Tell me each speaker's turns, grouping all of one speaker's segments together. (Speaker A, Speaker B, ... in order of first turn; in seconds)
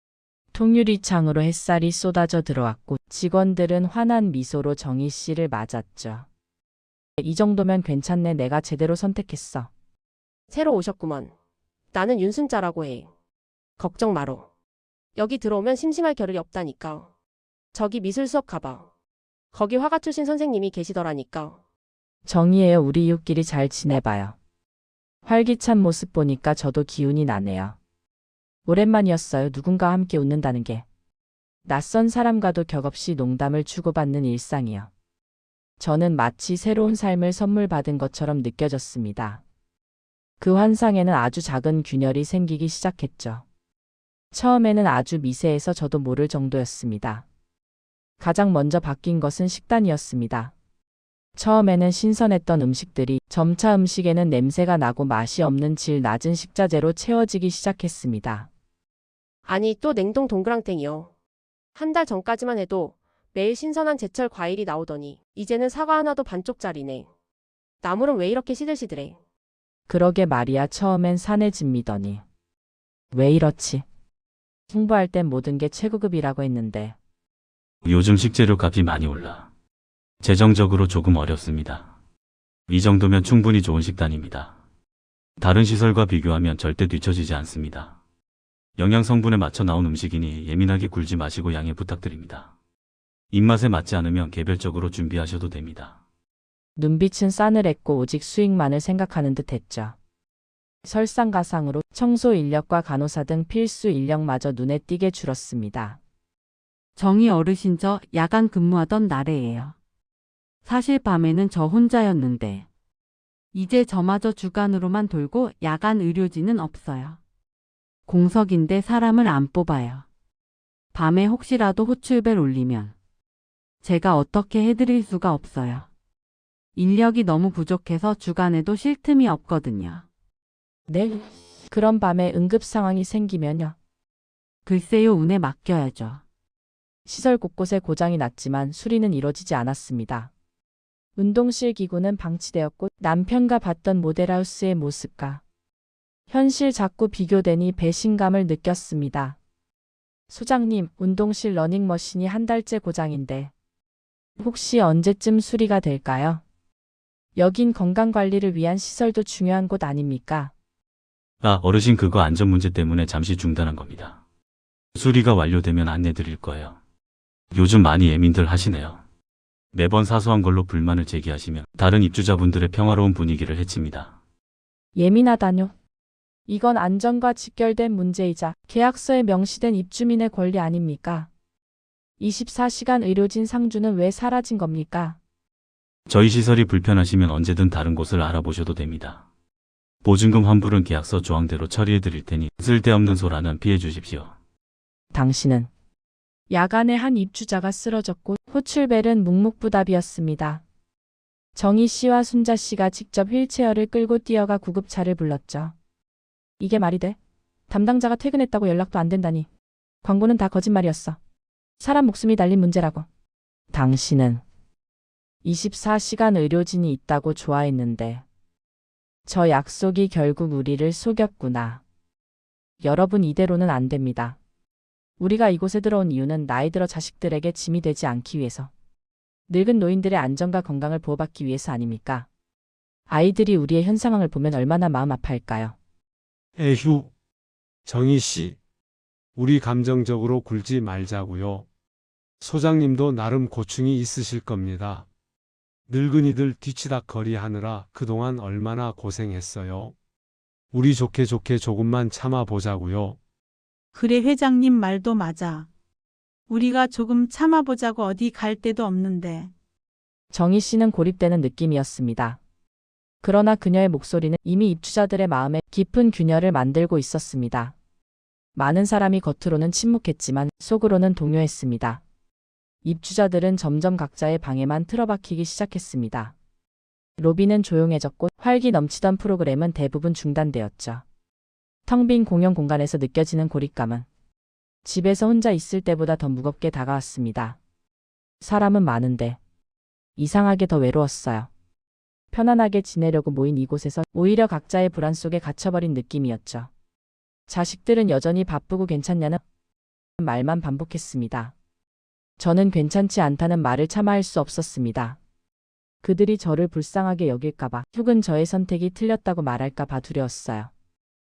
Speaker A: 0.5-6.3, 7.2-9.7, 22.2-24.4, 25.2-27.8, 28.6-30.9, 31.6-34.9, 35.8-39.4, 40.4-43.4, 44.3-47.2, 48.2-50.5, 51.4-58.5, 69.9-72.2, 73.1-73.8, 74.7-77.0, 96.8-100.0, 100.8-106.0, 130.9-133.8, 137.1-140.3, 141.2-145.4, 146.3-149.4, 150.3-153.5, 154.4-156.4, 157.3-160.5, 174.9-175.7, 176.5-181.3, 182.2-185.2, 195.1-195.7, 196.5-200.6, 201.5-205.7, 206.6-207.2, 207.7-209.5, 210.0-211.2, 211.8-213.1, 213.7-214.4, 215.4-218.2, 219.2-221.8, 222.8-224.4, 225.2-228.7, 229.5-232.3, 233.1-235.8, 260.3-262.4, 263.2-267.7, 268.6-272.0, 272.8-276.3, 277.2-281.0, 281.9-284.1, 284.8-287.6, 288.4-289.4, 290.2-291.5, 292.3-296.7, 297.5-299.4, 300.2-301.5, 302.4-305.2, 306.0-310.7
Speaker B: 10.5-11.3, 11.9-13.1, 13.8-14.5, 15.2-17.1, 17.7-18.9, 19.5-21.6, 59.5-61.1, 61.8-67.1, 67.8-69.2
Speaker C: 77.8-79.5, 80.2-81.9, 82.7-84.5, 85.4-88.0, 88.8-92.5, 93.3-96.0, 161.4-164.2, 164.9-166.8, 167.5-169.0, 169.7-174.1, 186.1-189.2, 190.0-194.3
Speaker D: 107.0-109.7, 110.6-112.7, 113.5-117.2, 118.1-120.0, 120.9-122.9, 123.8-125.8, 126.8-130.0, 134.7-136.2
Speaker E: 236.6-237.1, 237.8-238.6, 239.3-241.7, 242.4-245.1, 245.9-249.9, 250.7-253.2
Speaker F: 253.9-255.7, 256.5-259.5